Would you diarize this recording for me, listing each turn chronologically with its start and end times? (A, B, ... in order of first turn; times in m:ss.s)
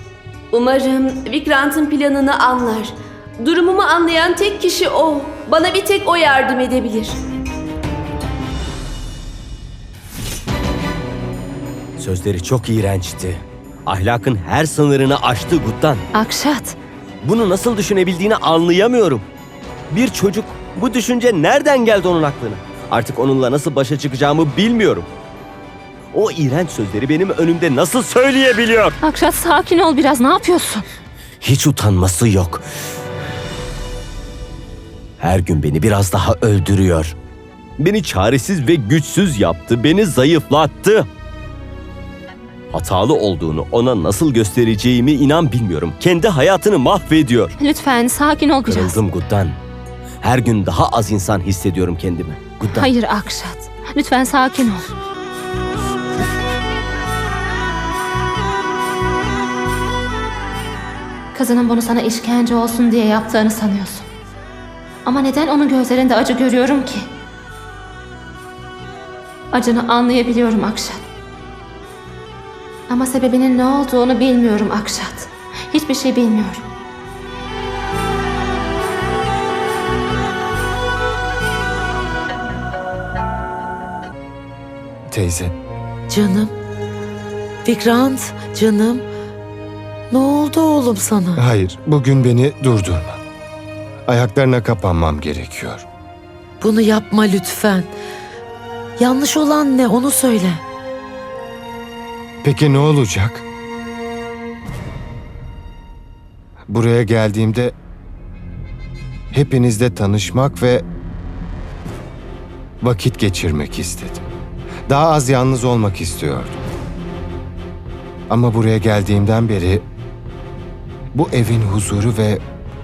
0:00.5-0:07.2 A
0:12.0-0:16.0 B
0:16.1-0:16.8 C
0:17.2-0:19.2 B
0:19.9-0:25.1 B
0:26.1-0:29.0 B
0:29.0-0:30.8 C
0:31.4-0:32.6 B
0:35.2-0:37.1 B
0:37.8-0:41.1 B
0:42.7-0:47.5 B
0:47.6-0:49.0 C
0:48.7-0:49.6 B
0:50.2-0:52.9 B
0:52.7-0:54.9 C
1:01.3-1:04.1 C
1:05.0-1:07.1 C
1:09.5-1:11.0 C
1:12.9-1:16.6 C
1:25.1-1:25.5 D
1:26.1-1:26.5 E
1:27.6-1:29.0 E
1:30.1-1:31.4 E
1:31.4-1:33.2 D
1:34.1-1:35.8 D
1:36.6-1:37.9 E
1:39.0-1:40.6 E
1:42.4-1:43.4 D
1:46.7-1:47.7 D
1:49.3-1:50.8 D
1:52.8-1:54.2 D
1:54.9-1:56.6 D
1:58.3-1:59.8 D
2:01.1-2:02.4 D